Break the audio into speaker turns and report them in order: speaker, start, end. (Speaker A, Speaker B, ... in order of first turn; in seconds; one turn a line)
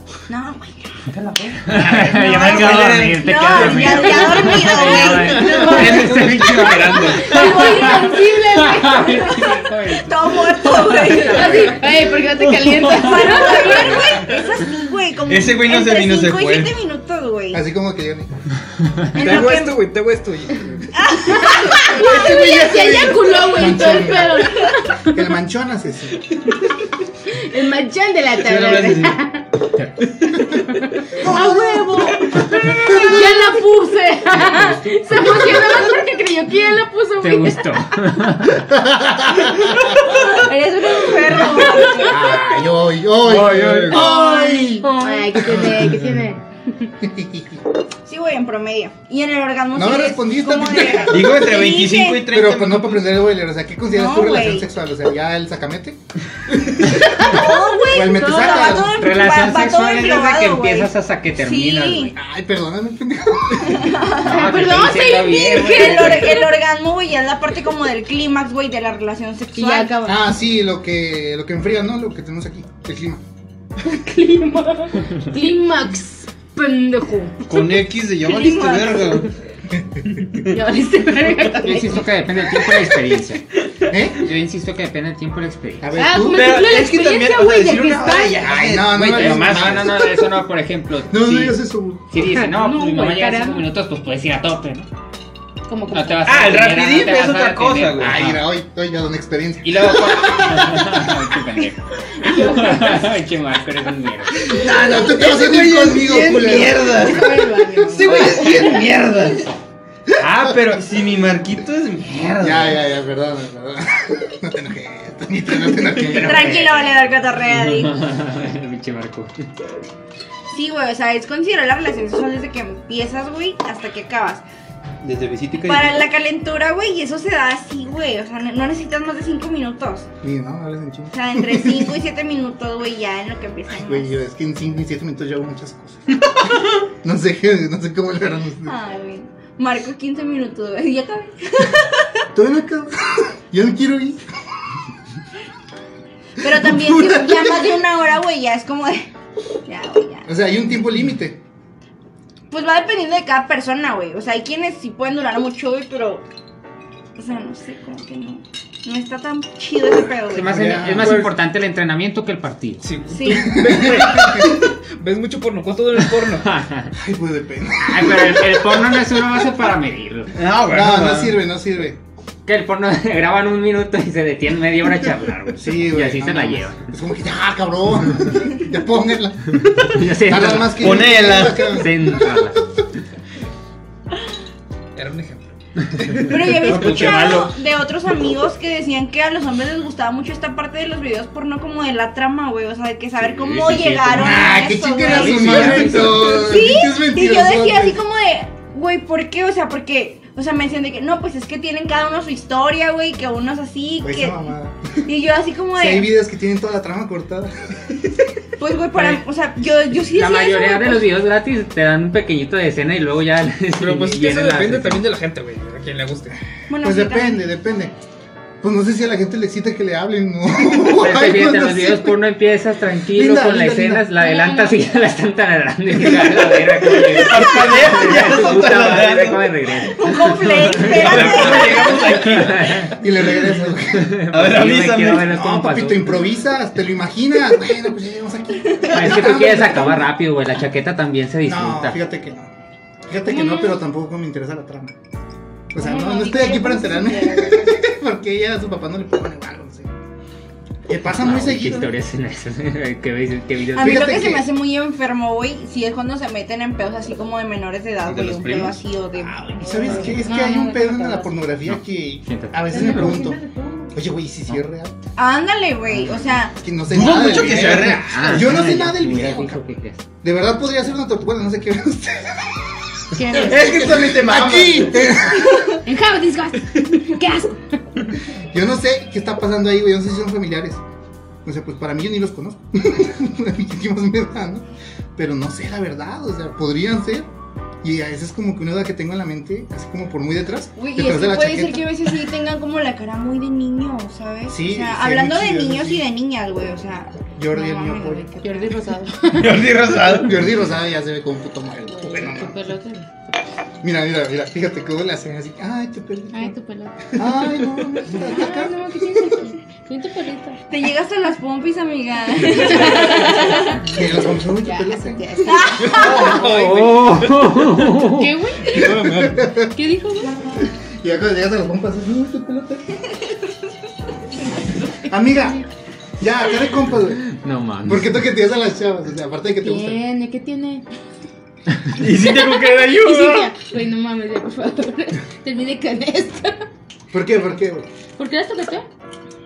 Speaker A: 0.3-1.0
Speaker B: 1.1-11.9
Speaker C: 1.7-7.9
Speaker A: 2.5-6.5
Speaker D: 5.4-5.8
Speaker D: 7.1-9.6
Speaker A: 9.3-11.8
Speaker D: 11.1-14.3
Speaker A: 12.7-17.6
Speaker B: 12.9-14.2
Speaker C: 15.3-16.8
Speaker E: 17.5-18.3
Speaker A: 19.1-19.8
Speaker F: 19.2-20.8
Speaker A: 20.9-22.5
Speaker D: 21.5-25.2
Speaker E: 21.7-26.4
Speaker D: 27.3-29.5
Speaker C: 28.4-29.2
Speaker D: 30.5-37.9
Speaker E: 31.2-33.4
Speaker E: 35.1-35.6
Speaker B: 37.2-38.6
Speaker E: 38.5-40.0
Speaker A: 40.0-42.4
Speaker E: 42.0-46.2
Speaker B: 43.3-44.0
Speaker F: 43.5-44.1
Speaker A: 43.9-45.6
Speaker D: 44.0-46.4
Speaker E: 47.0-47.6
Speaker A: 48.1-52.3
Speaker E: 49.7-51.5
Speaker C: 51.1-53.2
Speaker E: 52.3-59.0
Speaker A: 53.9-54.7
Speaker A: 57.2-62.1
Speaker D: 57.2-58.6
Speaker B: 58.5-62.1
Speaker E: 62.1-64.1
Speaker A: 63.6-70.0
Speaker B: 64.1-66.5
Speaker D: 64.2-66.5
Speaker D: 69.5-70.2
Speaker E: 70.0-73.2
Speaker D: 73.8-77.4
Speaker C: 77.5-79.3
Speaker A: 78.2-79.3
Speaker E: 79.8-80.0
Speaker D: 80.5-82.1
Speaker B: 81.6-83.4
Speaker E: 83.9-84.2
Speaker B: 84.1-86.0
Speaker E: 85.8-86.6
Speaker D: 86.0-88.4
Speaker C: 86.3-90.1
Speaker B: 88.5-91.6
Speaker E: 88.6-89.9
Speaker E: 91.1-92.1
Speaker B: 92.1-94.9
Speaker D: 92.2-93.7
Speaker D: 95.7-96.4
Speaker B: 95.9-98.5
Speaker C: 96.2-98.2
Speaker E: 98.1-101.1
Speaker B: 99.6-104.5
Speaker D: 102.2-103.0
Speaker E: 104.4-108.5
Speaker C: 104.5-107.4
Speaker D: 106.9-108.8
Speaker C: 107.9-109.5
Speaker C: 110.2-112.8
Speaker E: 110.2-110.6
Speaker E: 112.4-116.6
Speaker B: 116.0-119.3
Speaker A: 116.2-118.0
Speaker A: 120.5-124.4
Speaker C: 125.0-126.1
Speaker A: 125.6-130.1
Speaker E: 130.2-132.0
Speaker A: 131.1-134.1
Speaker E: 133.7-138.8
Speaker A: 138.7-142.2
Speaker E: 142.3-144.2
Speaker A: 146.4-149.1
Speaker E: 146.5-147.8
Speaker A: 149.7-150.3
Speaker E: 150.3-151.4
Speaker A: 152.5-156.2
Speaker A: 157.2-160.7
Speaker B: 160.3-162.9
Speaker E: 160.6-161.1
Speaker F: 161.0-161.3
Speaker F: 162.8-166.5
Speaker A: 163.1-163.6
Speaker E: 163.3-164.5
Speaker B: 166.2-166.9
Speaker E: 166.9-169.4
Speaker B: 167.8-170.3
Speaker C: 170.3-171.4
Speaker E: 170.7-172.0
Speaker B: 172.5-176.9
Speaker E: 175.6-182.3
Speaker B: 179.8-182.7
Speaker C: 180.6-181.7
Speaker F: 184.9-186.3
Speaker A: 186.3-204.4
Speaker C: 186.4-187.5
Speaker B: 186.7-187.5
Speaker B: 193.2-196.3
Speaker E: 194.1-198.0
Speaker E: 204.0-205.0
Speaker A: 205.0-206.1
Speaker E: 205.7-207.8
Speaker A: 208.6-211.1
Speaker B: 210.1-215.1
Speaker F: 213.8-216.4
Speaker A: 216.7-217.5
Speaker E: 216.8-218.0
Speaker E: 218.6-222.2
Speaker B: 220.8-230.2
Speaker E: 223.1-224.1
Speaker D: 224.2-224.9
Speaker C: 226.1-229.5
Speaker A: 229.9-232.4
Speaker C: 230.1-232.9
Speaker B: 230.8-233.1
Speaker E: 232.9-234.2
Speaker B: 233.8-236.2
Speaker C: 234.3-235.3
Speaker E: 235.3-240.1
Speaker A: 238.7-239.3
Speaker B: 238.9-242.0
Speaker E: 241.4-242.5
Speaker E: 243.1-244.9
Speaker D: 243.3-243.8
Speaker E: 245.7-249.9
Speaker D: 245.8-247.9
Speaker E: 250.9-251.9
Speaker B: 251.1-254.2
Speaker A: 253.7-260.1
Speaker E: 253.8-254.5
Speaker C: 258.1-258.8
Speaker E: 259.6-263.4
Speaker D: 259.6-261.4
Speaker B: 261.6-263.3
Speaker D: 262.7-264.0
Speaker E: 263.9-264.9
Speaker A: 265.2-266.6
Speaker E: 266.6-269.7
Speaker C: 266.9-268.8
Speaker B: 267.7-270.0
Speaker E: 270.2-275.7
Speaker D: 273.1-274.0
Speaker C: 273.3-275.1
Speaker D: 275.8-277.8
Speaker E: 278.5-280.8
Speaker E: 281.4-284.6
Speaker E: 285.2-287.3
Speaker E: 287.8-291.9
Speaker A: 290.8-298.8
Speaker E: 294.5-296.1
Speaker E: 297.3-298.3
Speaker D: 298.4-299.6
Speaker C: 299.3-300.4
Speaker E: 300.1-302.6
Speaker D: 301.9-303.1
Speaker E: 303.8-306.6
Speaker D: 306.3-307.1
Speaker E: 307.1-309.3
Speaker D: 308.1-310.6
Speaker A: 310.7-313.8
Speaker D: 312.7-316.2
Speaker E: 312.8-315.5
Speaker A: 315.4-316.4
Speaker F: 315.8-317.9
Speaker B: 316.1-318.4
Speaker D: 318.1-319.0
Speaker F: 318.7-319.4
Speaker E: 318.7-319.8
Speaker D: 319.5-320.6
Speaker E: 320.6-323.0
Speaker E: 325.1-325.6
Speaker E: 326.2-327.3
Speaker B: 327.3-328.2
Speaker E: 327.9-330.0
Speaker D: 329.6-330.8
Speaker C: 332.0-333.5
Speaker D: 332.2-336.6
Speaker E: 337.1-337.9
Speaker D: 338.2-338.9